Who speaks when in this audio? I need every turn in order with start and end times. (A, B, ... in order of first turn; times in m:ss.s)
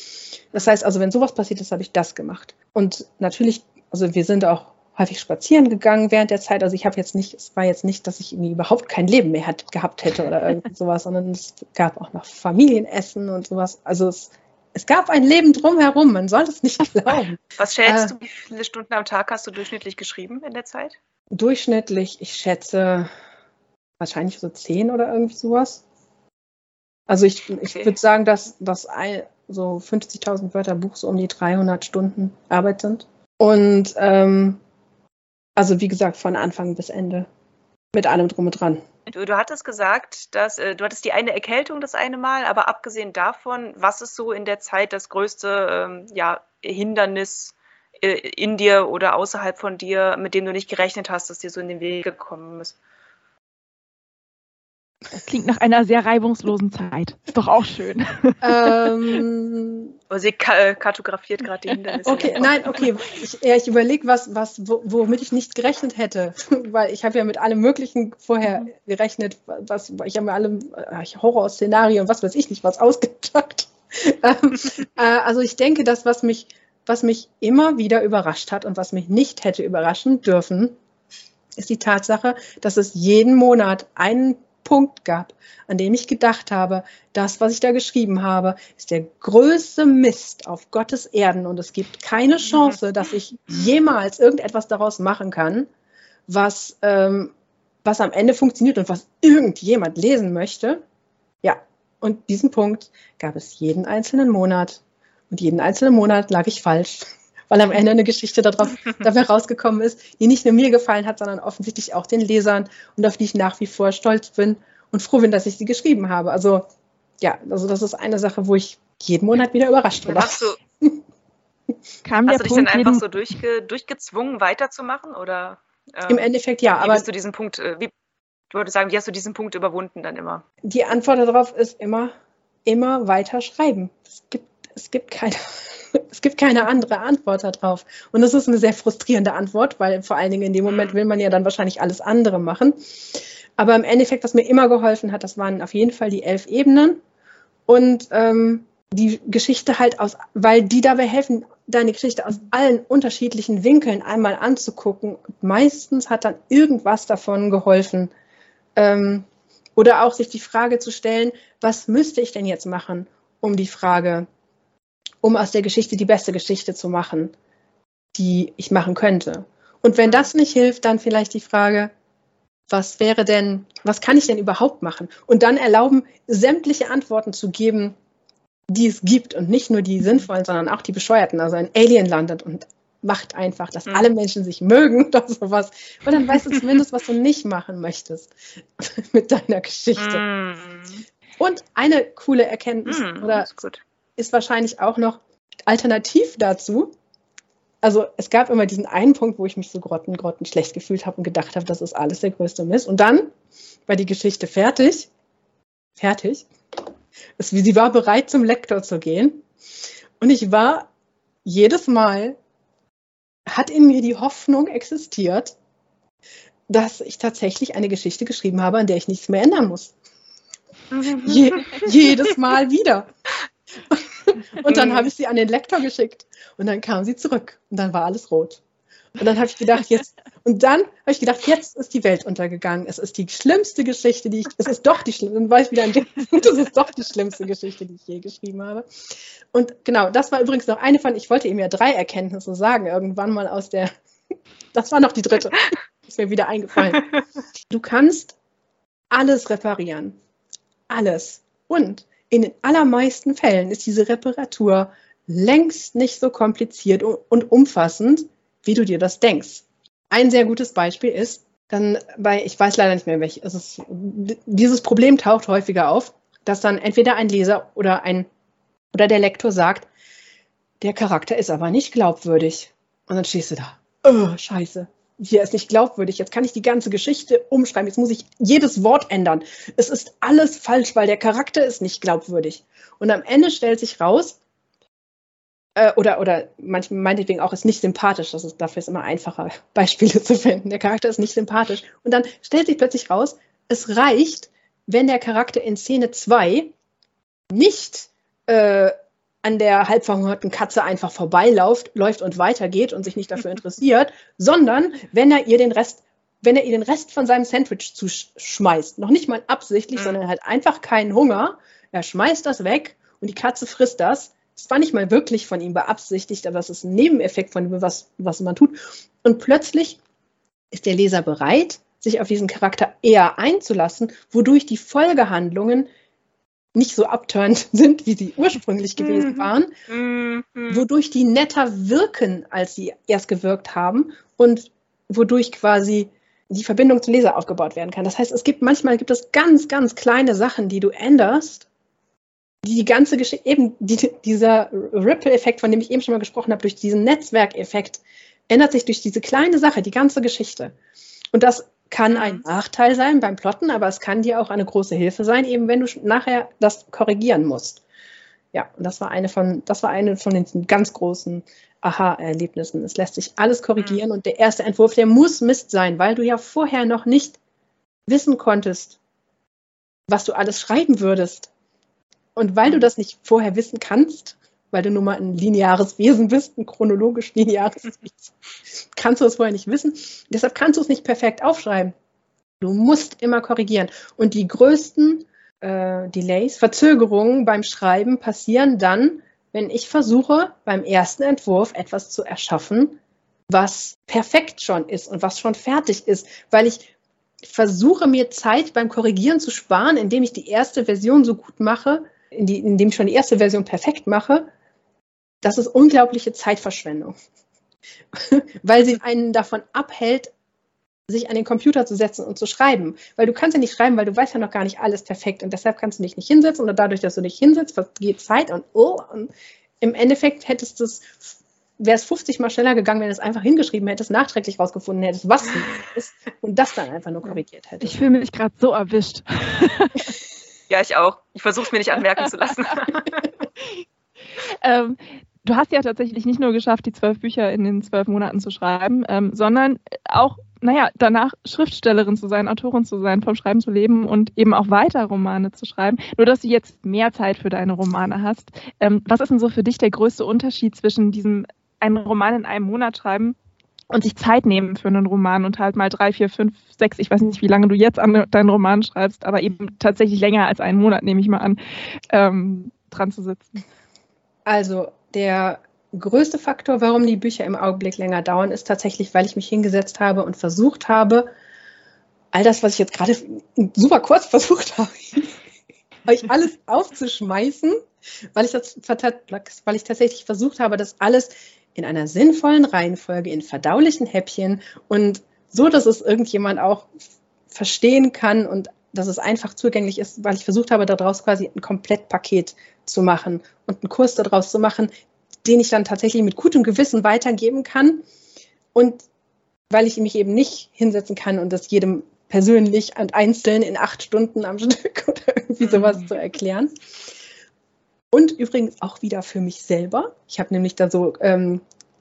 0:00.4-0:18.2 A
0:17.6-0:21.0 B
0:21.3-0:23.1 A
0:24.0-0:25.8 A
0:27.1-0:34.6 A
0:35.6-0:37.3 A
0:37.9-0:38.8 A
0:39.1-0:52.8 B
0:55.1-0:59.2 C
0:58.4-0:59.9 A
1:00.1-1:02.5 B
1:02.0-1:20.8 A
1:21.6-1:35.7 A
1:36.3-1:37.3 A
1:37.8-1:40.8 A
1:41.4-1:56.6 A
1:57.2-2:01.0 A
2:00.0-2:00.6 B
2:02.0-2:03.0 C
2:02.3-2:07.9 B
2:06.1-2:07.1 A
2:08.5-2:10.4 B
2:10.6-2:12.1 A
2:12.6-2:27.0 A
2:27.7-2:38.1 A
2:38.8-2:44.2 A
2:45.2-2:47.3 A
2:48.1-2:51.9 A
2:52.7-2:58.0 A
2:58.7-3:10.2 A
3:10.0-3:11.0 B
3:11.4-3:13.5 A
3:12.8-3:13.8 B
3:14.2-3:16.9 A
3:17.8-3:23.3 A
3:23.9-3:25.1 A
3:26.0-3:26.5 A
3:27.4-3:29.4 A
3:30.2-3:30.9 A
3:31.4-3:32.4 A
3:33.5-3:35.6 A
3:36.7-3:39.9 A
3:40.9-3:41.9 B
3:41.0-3:43.1 A
3:43.9-3:48.6 A
3:44.6-3:45.1 B
3:49.2-3:58.9 A
3:59.5-4:03.9 A
4:04.7-4:07.1 A
4:07.7-4:08.3 A
4:09.1-4:10.2 A
4:10.9-4:28.3 A
4:28.9-4:29.9 A
4:30.8-4:44.4 A
4:45.8-4:56.7 A
4:57.5-5:20.0 A
5:20.7-5:25.9 A
5:26.7-5:29.7 A
5:29.0-5:30.8 B
5:30.7-5:41.7 A
5:42.6-5:50.7 A
5:51.3-5:57.8 A
5:52.1-5:52.4 B
5:58.5-6:07.4 A
6:08.1-6:09.0 A
6:10.1-6:11.5 A
6:12.4-6:18.3 A
6:18.9-6:21.9 A
6:22.6-6:33.0 A
6:33.5-6:36.9 A
6:37.4-6:44.5 A
6:45.4-6:47.1 A
6:48.1-6:50.3 A
6:51.1-7:08.0 A
7:07.8-7:10.1 C
7:10.7-7:13.2 B
7:14.6-7:33.4 C
7:33.9-7:41.6 C
7:42.1-7:43.6 C
7:44.4-7:51.3 A
7:52.3-7:55.4 A
7:56.0-7:57.8 A
7:58.3-8:06.9 A
8:07.5-8:14.9 A
8:15.4-8:18.0 A
8:18.7-8:19.0 A
8:19.7-8:26.7 A
8:25.7-8:26.0 B
8:28.1-8:31.6 A